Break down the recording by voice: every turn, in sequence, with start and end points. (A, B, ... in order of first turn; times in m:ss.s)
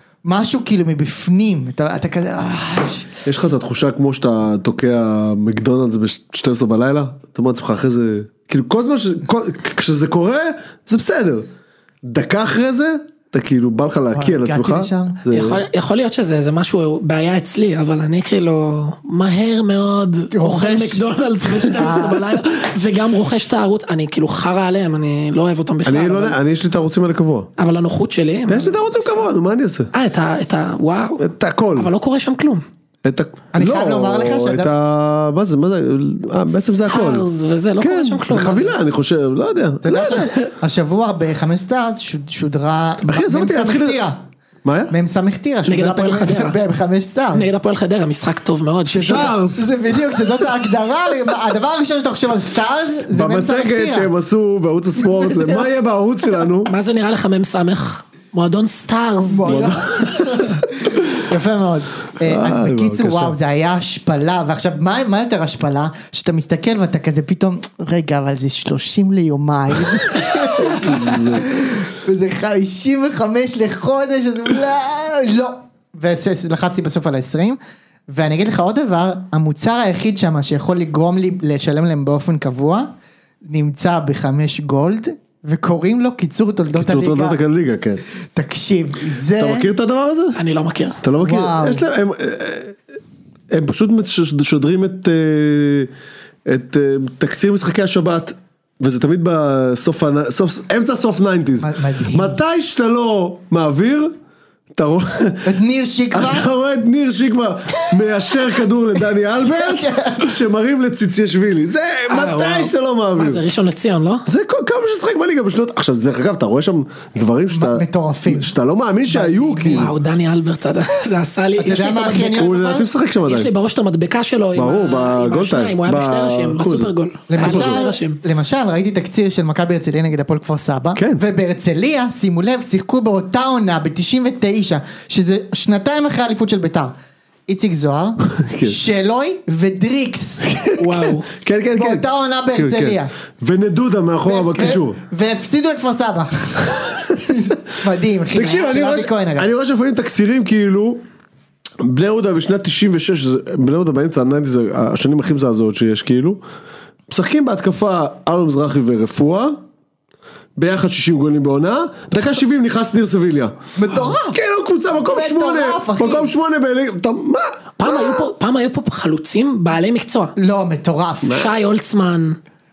0:00.2-0:03.2 A
0:03.2-0:11.5 B
0:12.0-0:15.6 B
0:14.1-0:15.2 A
0:15.3-0:26.4 C
0:20.3-0:22.2 A
0:25.8-0:27.5 B
0:27.6-0:28.8 C
0:28.5-0:29.9 B
0:29.9-0:32.6 C
0:31.2-0:31.9 B
0:33.0-0:37.2 B
0:33.5-0:34.7 A
0:36.6-0:38.8 C
0:37.8-0:40.3 B
0:39.8-0:44.2 A
0:43.0-0:44.0 B
0:44.6-0:44.9 B
0:44.9-0:47.5 A
0:45.6-0:46.6 C
0:47.3-0:49.3 C
0:48.9-0:49.7 B
0:48.9-0:54.1 A
0:53.1-0:56.7 B
0:55.2-0:55.6 A
0:56.7-1:00.2 C
0:59.3-1:22.9 A
0:59.4-1:00.4 B
1:02.2-1:03.4 B
1:10.6-1:11.5 B
1:23.4-1:27.4 A
1:26.7-1:28.0 B
1:28.3-1:29.7 A
1:29.4-1:30.4 B
1:30.3-1:31.0 C
1:31.0-1:32.9 B
1:31.2-1:31.8 A
1:33.5-1:35.9 B
1:36.4-1:44.1 B
1:41.6-1:42.4 A
1:44.7-1:45.5 B
1:45.4-1:46.5 A
1:46.1-1:53.4 B
1:49.4-1:50.3 A
1:52.1-1:54.2 C
1:54.2-1:59.9 B
1:57.5-1:58.5 A
1:59.1-1:59.9 A
1:59.7-2:02.4 C
2:01.6-2:02.9 A
2:02.1-2:03.5 B
2:03.2-2:08.2 C
2:04.5-2:07.8 B
2:07.3-2:16.9 A
2:11.0-2:11.2 B
2:17.5-2:20.5 A
2:18.4-2:18.8 B
2:20.4-2:25.0 B
2:20.8-2:21.3 C
2:21.7-2:23.1 A
2:24.2-2:29.5 A
2:28.3-2:31.0 B
2:31.8-2:36.4 B
2:37.1-2:39.6 B
2:40.6-2:48.2 B
2:43.8-2:44.4 A
2:45.1-2:46.3 A
2:47.8-2:50.3 C
2:50.4-2:51.4 A
2:51.2-2:52.4 C